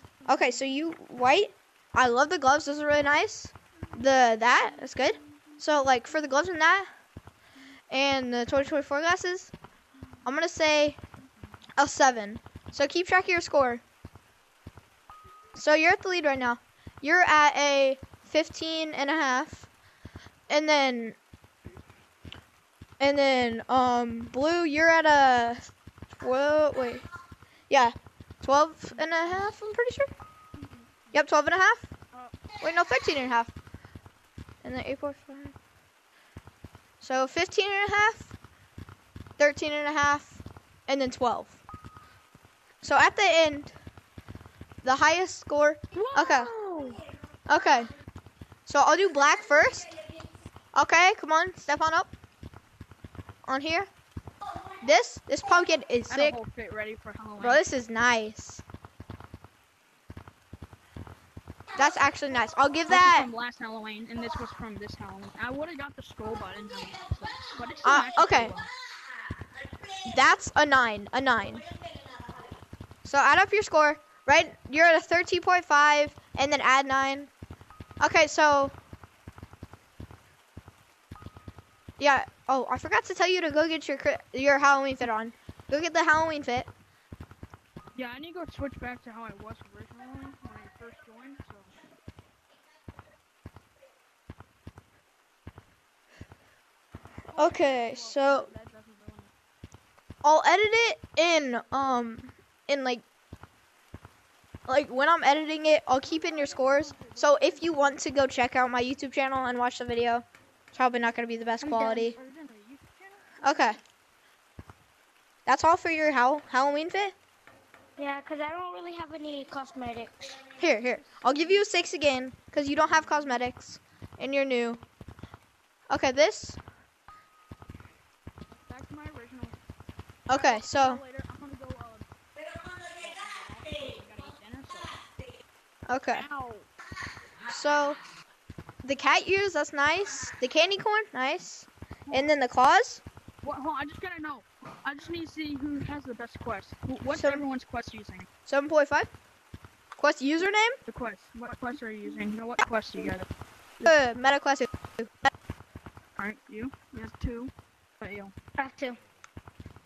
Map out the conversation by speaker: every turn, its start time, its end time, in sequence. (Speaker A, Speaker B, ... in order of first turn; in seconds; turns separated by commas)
Speaker A: 0.3-6.9, Speaker B: 4.2-5.1, Speaker A: 7.9-9.5, Speaker A: 10.2-11.0, Speaker A: 11.8-13.8, Speaker A: 15.6-19.7, Speaker A: 20.5-21.2, Speaker A: 23.0-25.7, Speaker A: 26.2-27.0, Speaker A: 27.7-30.1, Speaker B: 28.9-29.5, Speaker B: 30.6-31.2, Speaker A: 31.1-31.9, Speaker A: 32.6-33.5, Speaker A: 34.6-35.5, Speaker A: 37.0-38.3, Speaker A: 39.4-41.6, Speaker A: 42.8-43.7, Speaker A: 44.8-46.5, Speaker C: 45.9-47.0, Speaker A: 47.5-47.9, Speaker A: 48.6-49.9, Speaker A: 50.7-52.1, Speaker A: 53.5-53.9, Speaker A: 54.8-56.4, Speaker B: 56.1-57.6, Speaker A: 57.4-58.6, Speaker A: 61.8-63.3, Speaker B: 62.9-68.7, Speaker A: 67.8-68.6, Speaker A: 70.0-71.6, Speaker A: 73.0-77.3, Speaker A: 78.0-78.7, Speaker A: 82.0-86.7, Speaker B: 87.9-91.8, Speaker B: 97.3-99.3, Speaker A: 97.4-98.5, Speaker A: 100.2-103.0, Speaker A: 104.7-112.2, Speaker B: 106.0-108.2, Speaker B: 111.6-113.7, Speaker C: 111.6-112.1, Speaker A: 113.4-113.8, Speaker A: 115.5-117.1, Speaker C: 118.0-120.4, Speaker A: 120.6-124.8, Speaker B: 120.9-121.8, Speaker B: 122.7-123.4, Speaker A: 125.9-126.6, Speaker B: 128.5-129.6, Speaker A: 130.3-131.0, Speaker B: 130.3-132.1, Speaker B: 132.8-135.0, Speaker A: 135.9-136.2, Speaker B: 136.1-136.7, Speaker A: 137.5-138.0, Speaker A: 138.8-143.0, Speaker B: 143.4-148.3, Speaker A: 147.1-147.4, Speaker A: 148.5-149.1, Speaker A: 150.0-150.8, Speaker B: 150.9-153.3, Speaker A: 153.8-155.3, Speaker B: 156.2-158.3, Speaker C: 158.6-159.0